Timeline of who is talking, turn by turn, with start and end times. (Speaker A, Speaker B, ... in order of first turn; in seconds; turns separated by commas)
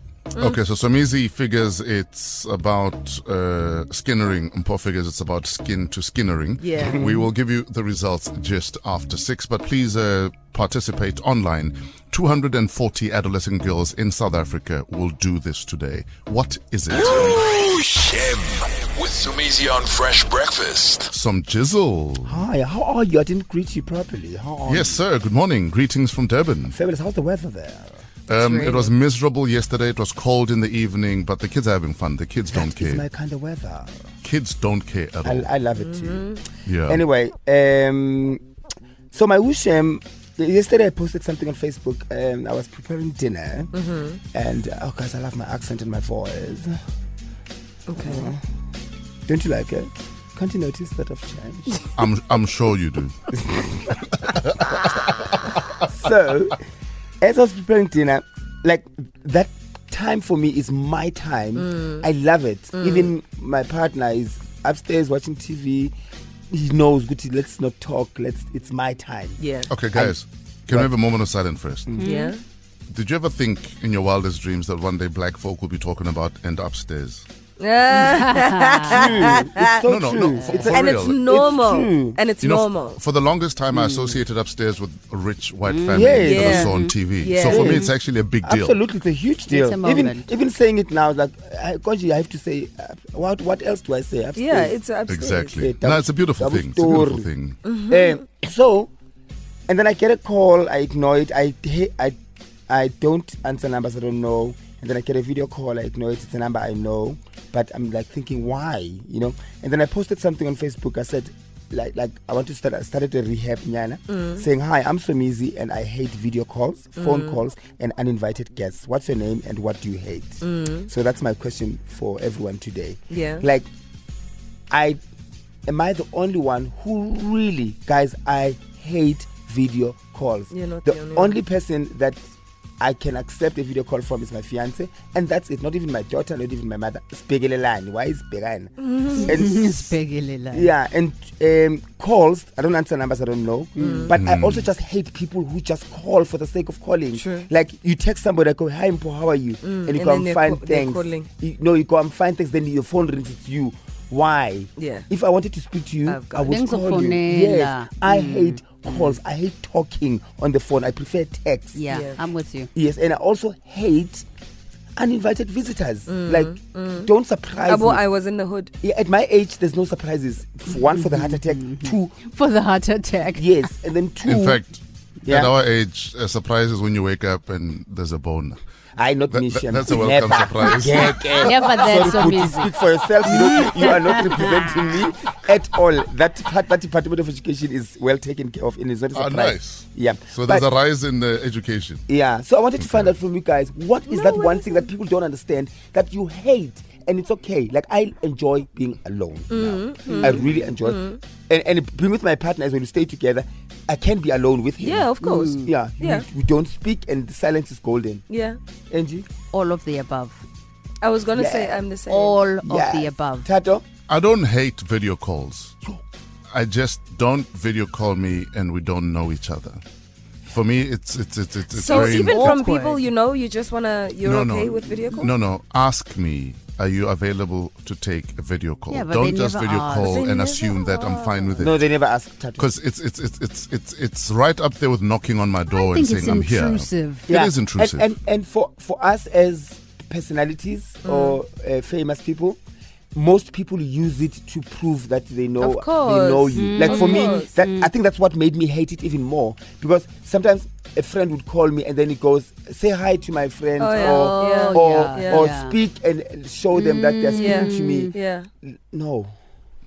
Speaker A: 0.4-17.5, Speaker B: 6.6-7.2, Speaker C: 16.9-21.1, Speaker A: 21.1-22.4, Speaker D: 22.2-25.0, Speaker A: 24.7-26.8, Speaker D: 26.7-28.0, Speaker A: 28.3-33.0, Speaker B: 28.4-28.7, Speaker D: 32.5-34.0, Speaker A: 34.2-35.5, Speaker D: 35.2-38.4, Speaker B: 35.8-36.4, Speaker A: 36.7-37.0, Speaker D: 39.1-43.7, Speaker B: 43.7-44.2, Speaker D: 44.3-46.8, Speaker B: 47.9-48.3, Speaker D: 48.0-48.4, Speaker D: 49.3-51.9, Speaker A: 52.0-53.3, Speaker D: 53.3-53.9, Speaker D: 55.8-56.6, Speaker D: 57.2-65.9, Speaker B: 61.6-62.1, Speaker B: 62.7-63.1, Speaker D: 66.5-69.4, Speaker B: 69.4-69.7, Speaker A: 69.7-72.0, Speaker E: 72.0-72.3, Speaker B: 72.0-72.4, Speaker A: 72.9-77.2, Speaker B: 77.6-79.8, Speaker E: 77.9-79.5, Speaker D: 78.9-82.2, Speaker A: 79.8-81.2, Speaker E: 80.2-80.7, Speaker B: 80.6-83.0, Speaker A: 82.4-88.8, Speaker E: 83.7-84.2, Speaker E: 85.7-86.9, Speaker D: 85.9-86.7, Speaker B: 86.2-87.9, Speaker D: 87.5-87.9, Speaker D: 88.4-94.8, Speaker E: 89.5-90.3, Speaker B: 94.3-95.7, Speaker A: 95.1-97.6, Speaker D: 95.6-97.3, Speaker B: 97.6-98.2, Speaker D: 97.9-98.9, Speaker D: 99.7-102.2, Speaker D: 102.7-123.7, Speaker B: 114.1-114.5, Speaker B: 117.0-117.4, Speaker B: 120.4-120.9, Speaker B: 123.1-123.5, Speaker D: 124.7-125.0, Speaker D: 125.7-132.2, Speaker B: 130.5-131.4, Speaker D: 132.8-140.0, Speaker B: 138.8-139.4, Speaker E: 139.1-140.7, Speaker D: 140.5-161.8, Speaker B: 143.8-144.2, Speaker A: 144.1-144.7, Speaker B: 147.1-147.5, Speaker B: 149.6-151.3, Speaker B: 154.8-155.1, Speaker B: 156.1-156.7, Speaker E: 156.5-158.6, Speaker E: 161.7-162.7, Speaker B: 161.9-162.2, Speaker D: 162.7-164.2, Speaker D: 165.0-168.0, Speaker B: 166.1-167.1, Speaker B: 167.7-168.7, Speaker D: 168.8-172.2, Speaker E: 170.8-173.7, Speaker D: 173.3-174.6, Speaker A: 174.3-178.6, Speaker D: 175.2-175.5, Speaker D: 178.9-190.7, Speaker A: 179.3-181.7, Speaker E: 181.4-182.7, Speaker E: 183.2-184.9, Speaker A: 189.1-192.0, Speaker D: 192.1-208.2, Speaker A: 192.8-193.1, Speaker B: 194.1-194.9, Speaker B: 199.5-201.2, Speaker E: 200.1-200.6, Speaker B: 204.8-206.2, Speaker E: 205.2-205.7, Speaker B: 208.3-208.6, Speaker D: 208.9-209.3, Speaker E: 209.5-210.4, Speaker B: 211.0-212.5, Speaker D: 211.3-211.9, Speaker E: 212.1-213.5, Speaker D: 212.6-213.8, Speaker A: 214.1-215.8, Speaker A: 216.5-219.8, Speaker A: 220.5-222.6, Speaker B: 221.7-225.3, Speaker E: 221.9-223.1, Speaker A: 224.2-231.9, Speaker E: 228.9-230.3, Speaker B: 230.0-231.7, Speaker D: 231.6-232.7, Speaker A: 232.6-238.1, Speaker E: 235.7-237.3, Speaker D: 237.3-242.6, Speaker B: 241.0-241.4, Speaker D: 243.1-259.4, Speaker B: 245.6-247.5, Speaker E: 246.5-247.9, Speaker B: 253.8-255.6, Speaker E: 253.9-255.8, Speaker E: 256.7-258.1, Speaker B: 257.3-258.5